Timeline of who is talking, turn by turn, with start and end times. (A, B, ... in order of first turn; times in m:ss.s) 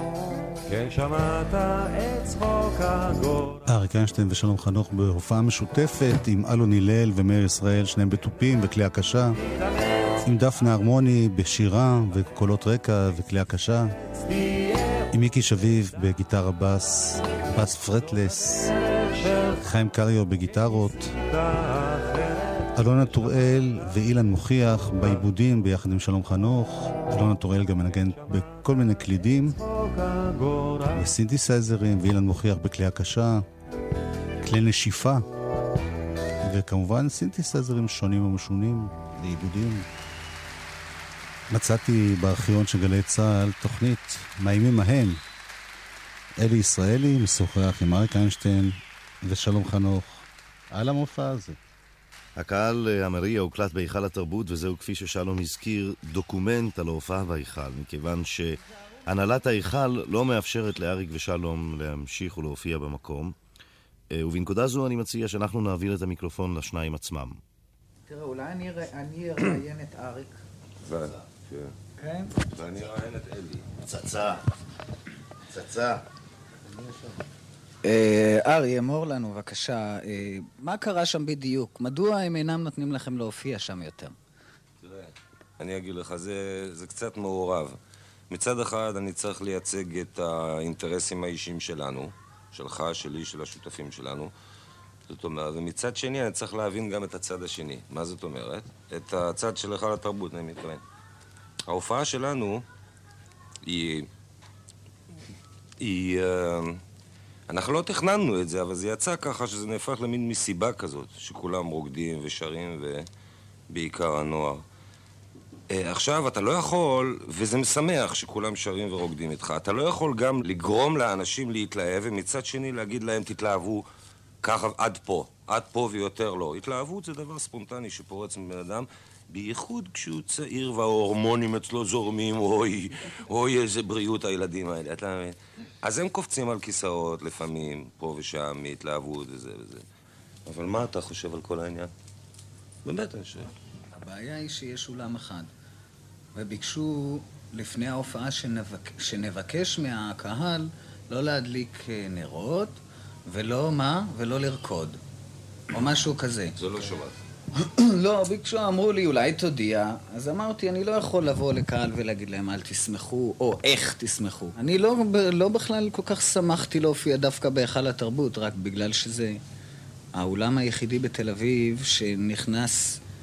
0:00.7-0:03.7 A
0:03.7-0:09.4 B
0:09.4-0:10.2 A
0:10.2-0:14.0 B
0:14.1-0:15.1 A
0:15.1-0:18.7 B
0:18.4-0:19.7 A
0:19.6-0:21.1 B
0:20.5-0:23.6 A
0:22.8-0:29.6 B
0:27.9-0:31.1 A
0:31.0-0:33.4 B
0:34.4-0:35.2 B
0:36.4-0:39.9 B
0:41.5-0:45.2 B
0:46.4-0:51.6 B
0:52.4-1:03.4 C
1:04.1-1:07.4 C
1:08.1-1:10.4 D
1:10.8-1:11.7 E
1:12.0-1:12.3 D
1:12.5-1:13.7 E
1:13.8-1:14.4 C
1:15.5-1:16.0 C
1:16.7-1:17.1 C
1:17.8-1:24.2 D
1:24.8-1:27.8 E
1:28.3-1:34.3 E
1:35.1-1:40.8 E
1:41.7-1:42.6 E
1:43.6-1:44.1 E
1:45.8-1:46.8 E
1:47.5-1:53.1 E
1:53.7-1:54.6 E
1:55.7-2:03.9 E
2:04.4-2:19.8 E
2:20.5-2:21.9 E
2:22.8-2:23.5 E
2:24.0-2:25.5 D
2:26.4-2:35.0 D
2:35.7-2:36.6 D
2:36.6-2:37.2 E
2:37.6-2:49.4 D
2:50.2-2:53.0 D